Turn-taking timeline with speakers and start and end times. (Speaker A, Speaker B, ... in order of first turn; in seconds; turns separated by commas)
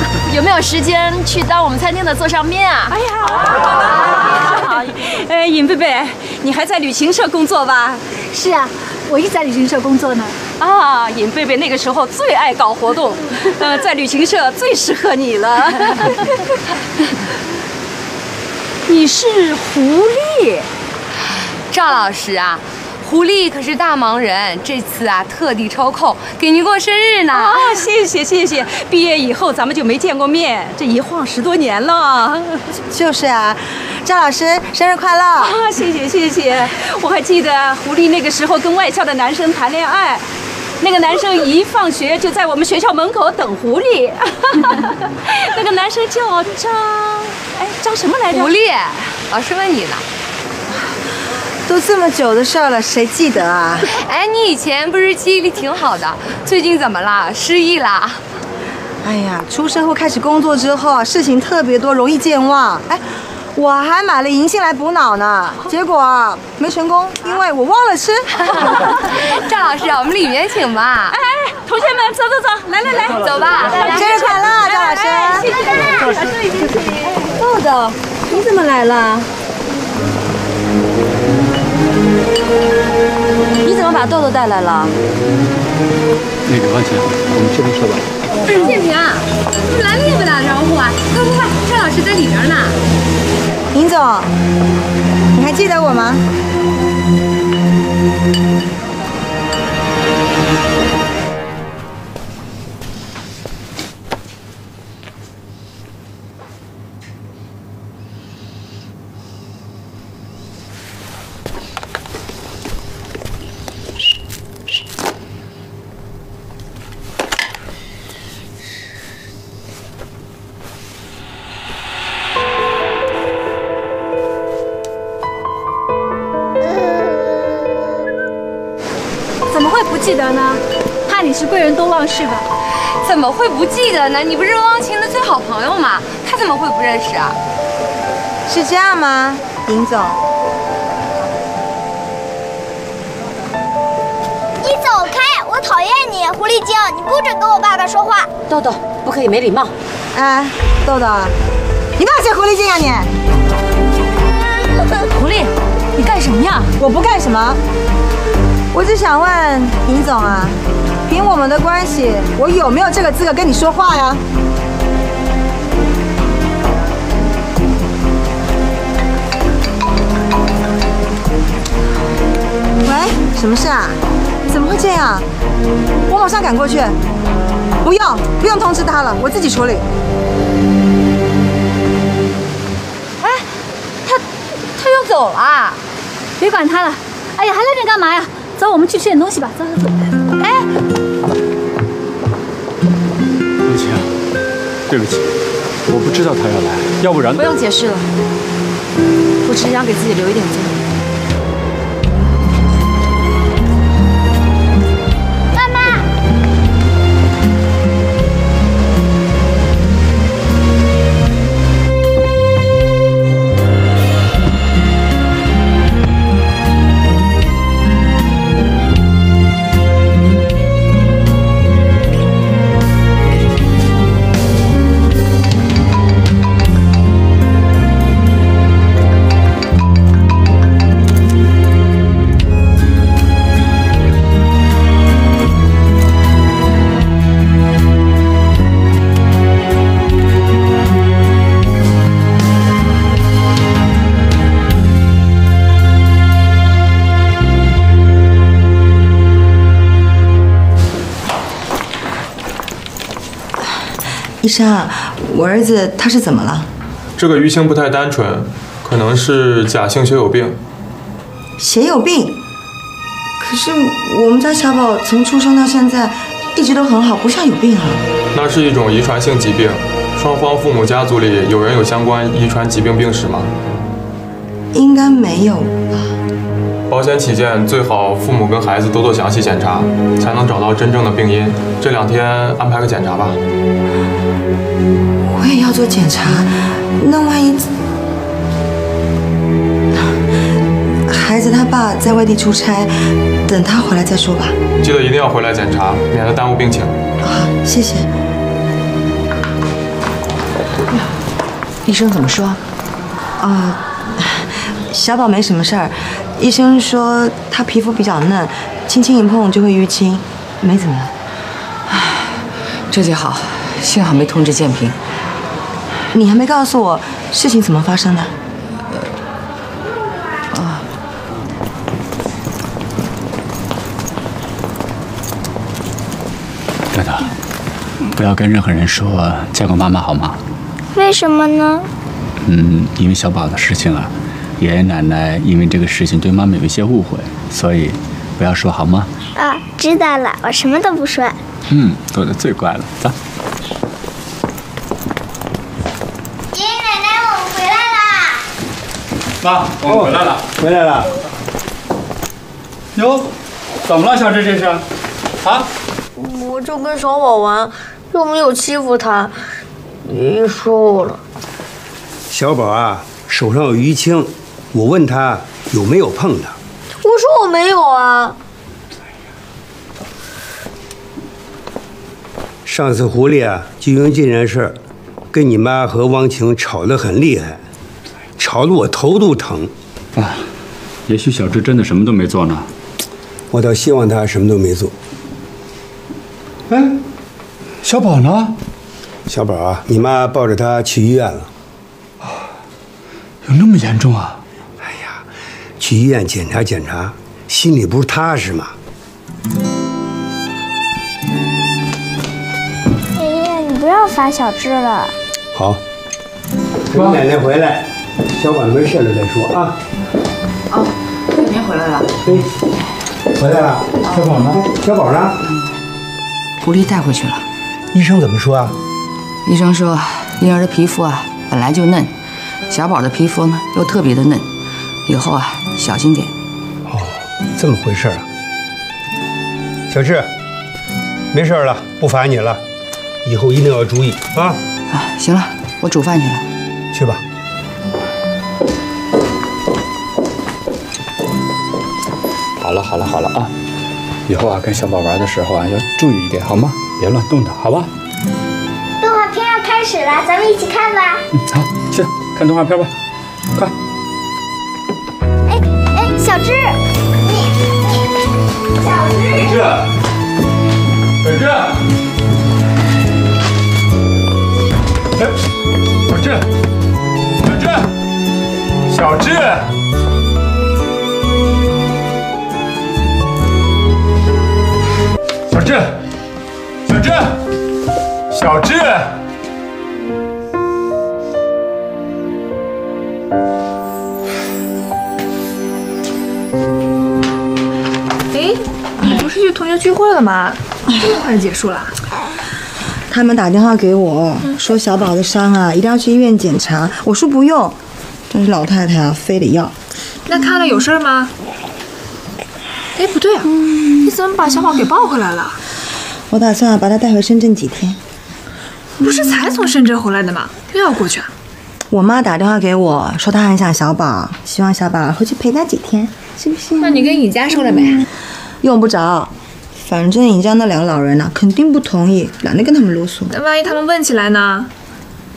Speaker A: 0.3-0.6, Speaker B: 0.4-8.1, Speaker C: 8.3-10.3, Speaker B: 10.6-16.4, Speaker B: 18.9-20.7, Speaker D: 21.7-27.9, Speaker B: 27.3-32.6, Speaker E: 32.9-35.5, Speaker B: 35.4-40.2, Speaker B: 40.8-48.5, Speaker D: 48.3-50.0, Speaker E: 51.6-53.9, Speaker D: 53.9-58.2, Speaker E: 59.0-68.5, Speaker D: 68.7-71.2, Speaker B: 71.1-76.9, Speaker D: 73.2-73.9, Speaker E: 73.8-75.5, Speaker A: 77.4-79.0, Speaker A: 83.6-84.9, Speaker F: 86.5-88.0, Speaker D: 88.4-92.8, Speaker E: 93.7-94.3, Speaker E: 95.3-96.2, Speaker C: 129.5-132.4, Speaker D: 133.0-137.4, Speaker E: 138.5-140.2, Speaker G: 144.6-148.3, Speaker A: 148.5-149.7, Speaker E: 150.1-151.3, Speaker E: 152.0-153.1, Speaker B: 155.1-155.4, Speaker B: 156.0-156.6, Speaker E: 156.8-157.6, Speaker E: 158.7-164.2, Speaker E: 172.8-175.3, Speaker E: 176.1-177.0, Speaker E: 177.8-179.8, Speaker D: 184.8-185.5, Speaker C: 186.4-190.1, Speaker F: 193.6-194.1, Speaker F: 194.9-195.2, Speaker F: 195.9-197.4, Speaker A: 197.3-198.0, Speaker A: 199.5-200.7, Speaker E: 254.4-256.7, Speaker H: 257.2-260.6, Speaker E: 261.6-262.4, Speaker E: 263.4-268.0, Speaker H: 268.3-273.5, Speaker E: 274.7-276.1, Speaker H: 276.9-283.4, Speaker E: 285.2-287.7, Speaker E: 291.1-294.6, Speaker H: 294.8-297.0, Speaker E: 297.2-298.1, Speaker I: 301.9-302.6, Speaker E: 303.4-311.1, Speaker I: 311.9-312.3, Speaker I: 312.9-315.0, Speaker E: 316.1-318.3, Speaker I: 320.5-320.8, Speaker F: 326.9-327.3, Speaker F: 328.1-330.4, Speaker G: 330.9-331.9, Speaker F: 332.4-339.1, Speaker G: 339.4-341.4, Speaker F: 341.7-343.1, Speaker G: 346.5-348.4, Speaker F: 349.4-350.4, Speaker J: 349.8-351.1, Speaker F: 352.9-353.3, Speaker F: 353.8-354.8, Speaker K: 356.2-359.3, Speaker K: 360.0-361.2, Speaker J: 362.3-366.6, Speaker K: 367.0-368.4, Speaker J: 372.6-374.8, Speaker J: 375.3-377.6, Speaker J: 378.4-379.7, Speaker F: 380.1-380.5, Speaker F: 381.1-382.7, Speaker J: 383.5-384.9, Speaker J: 386.7-387.0, Speaker F: 387.8-388.5, Speaker J: 389.3-391.5, Speaker F: 393.4-394.4, Speaker J: 394.8-395.2, Speaker J: 395.8-398.7, Speaker G: 403.1-405.1, Speaker J: 405.5-405.8, Speaker J: 406.9-409.7, Speaker I: 410.7-412.1, Speaker J: 412.2-412.5, Speaker J: 413.4-415.4, Speaker F: 414.1-414.6, Speaker I: 416.6-417.4, Speaker J: 417.9-418.7, Speaker I: 419.4-422.1, Speaker I: 422.7-424.5, Speaker I: 425.1-426.3, Speaker J: 426.9-428.2, Speaker J: 429.9-430.3, Speaker J: 431.3-432.6, Speaker J: 433.2-434.6, Speaker I: 434.9-436.4, Speaker J: 436.9-437.2, Speaker F: 442.6-443.5, Speaker F: 444.3-447.9, Speaker G: 449.0-451.2, Speaker F: 451.3-452.9, Speaker G: 455.5-456.8, Speaker G: 458.8-459.5, Speaker F: 459.3-459.9, Speaker F: 461.2-461.8, Speaker F: 466.1-466.4, Speaker F: 467.4-467.9, Speaker F: 468.9-469.7, Speaker F: 475.5-476.0, Speaker F: 476.9-477.4, Speaker F: 478.3-479.1, Speaker L: 488.3-491.9, Speaker E: 493.1-497.8, Speaker E: 498.3-499.7, Speaker L: 500.3-501.3, Speaker L: 502.9-505.6, Speaker E: 506.3-508.0, Speaker L: 509.0-511.3, Speaker E: 511.9-517.2, Speaker L: 516.8-518.0, Speaker E: 518.6-523.3, Speaker L: 523.3-524.7